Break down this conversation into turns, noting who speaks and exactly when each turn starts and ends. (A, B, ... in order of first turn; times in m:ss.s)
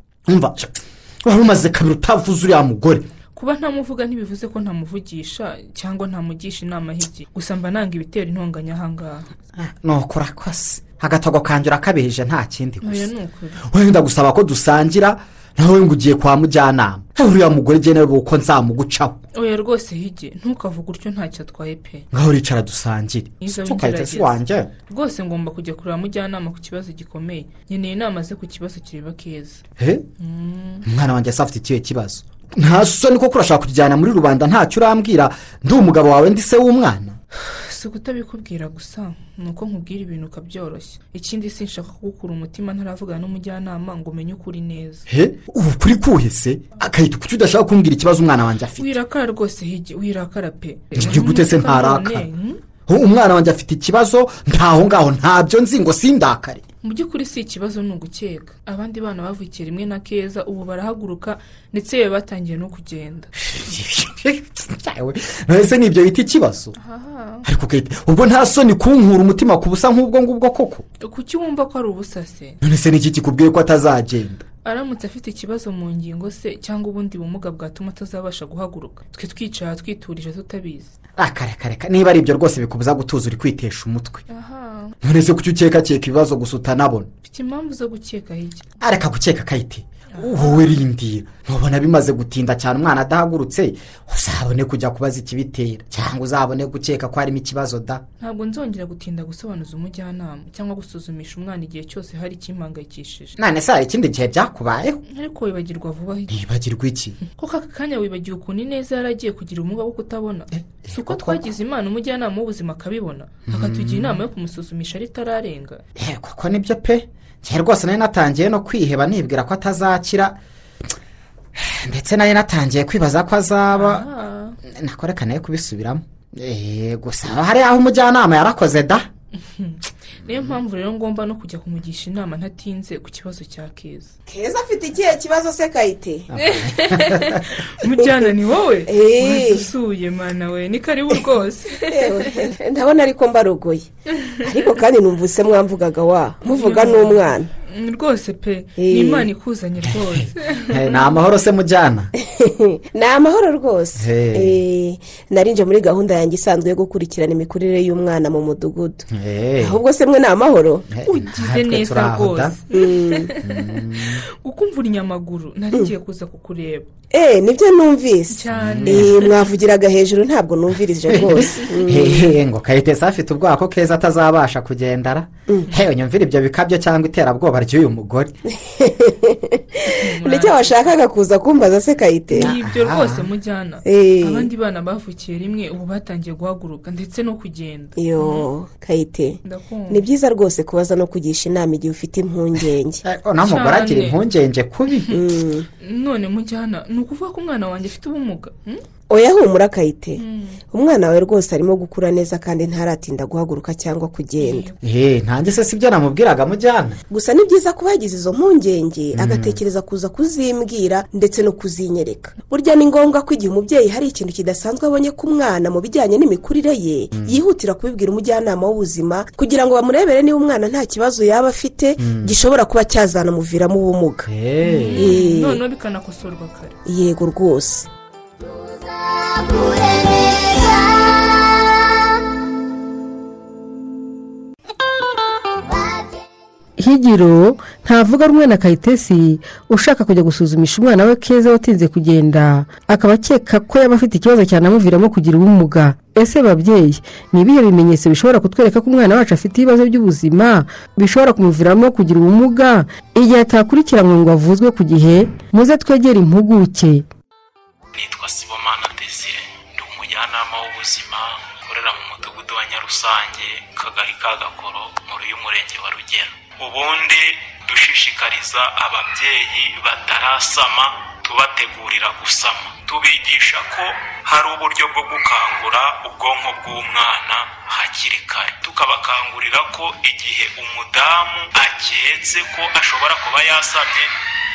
0:00.3-0:03.0 A
0:03.4-0:09.3 B
0:09.6-0:13.1 A
0:12.8-0:13.6 B
0:13.7-0:19.2 A
0:19.3-0:22.1 B
0:22.1-0:24.7 A
0:23.4-0:29.6 B
0:29.8-0:30.0 A
0:30.2-0:30.8 B
0:30.8-0:37.2 A
0:37.4-0:45.0 B
0:45.1-0:48.9 A
0:48.8-0:52.6 B
0:51.0-0:52.3 A
0:52.9-0:56.6 A
0:56.8-1:03.3 B
1:03.4-1:06.7 A
1:06.8-1:07.5 B
1:07.4-1:10.8 A
1:11.0-1:12.6 B
1:12.6-1:14.4 A
1:14.6-1:20.9 B
1:21.2-1:24.2 A
1:24.3-1:25.0 B
1:25.0-1:27.1 A
1:27.2-1:28.7 B
1:28.8-1:38.0 A
1:30.2-1:30.8 B
1:38.2-1:43.4 B
1:43.4-1:45.0 A
1:45.1-1:46.4 B
1:46.3-1:47.2 A
1:47.3-1:55.8 B
1:50.8-1:51.5 A
1:53.5-1:54.2 A
1:56.0-2:00.4 A
2:01.6-2:04.1 A
2:03.7-2:04.6 B
2:04.7-2:09.1 A
2:09.5-2:14.2 B
2:14.3-2:16.3 C
2:16.3-2:17.4 A
2:16.4-2:22.4 B
2:18.9-2:19.7 C
2:21.9-2:27.5 C
2:26.5-2:31.2 B
2:28.8-2:29.3 C
2:30.2-2:32.1 A
2:32.4-2:39.1 C
2:34.0-2:34.6 A
2:39.1-2:39.8 A
2:39.6-2:40.9 C
2:40.9-2:42.5 A
2:41.0-2:46.9 B
2:42.7-2:43.3 C
2:43.4-2:44.2 A
2:47.1-2:52.3 C
2:48.3-2:49.5 B
2:48.6-2:49.2 A
2:51.1-2:58.3 A
2:58.6-3:02.5 C
2:59.9-3:00.9 B
3:02.3-3:08.5 B
3:02.4-3:03.3 A
3:03.8-3:04.5 C
3:08.0-3:13.0 C
3:09.4-3:10.0 B
3:13.0-3:15.1 A
3:13.4-3:14.2 B
3:15.1-3:15.7 C
3:15.8-3:18.8 B
3:19.1-3:20.2 C
3:20.2-3:20.6 B
3:20.7-3:24.7 C
3:24.4-3:24.7 B
3:24.8-3:27.0 A
3:27.1-3:44.3 C
3:29.2-3:29.6 A
3:42.0-3:42.3 A
3:44.3-3:45.1 A
3:44.6-3:46.8 B
3:44.9-3:45.6 C
3:46.9-3:47.9 C
3:56.8-4:17.0 D
4:17.9-4:44.1 E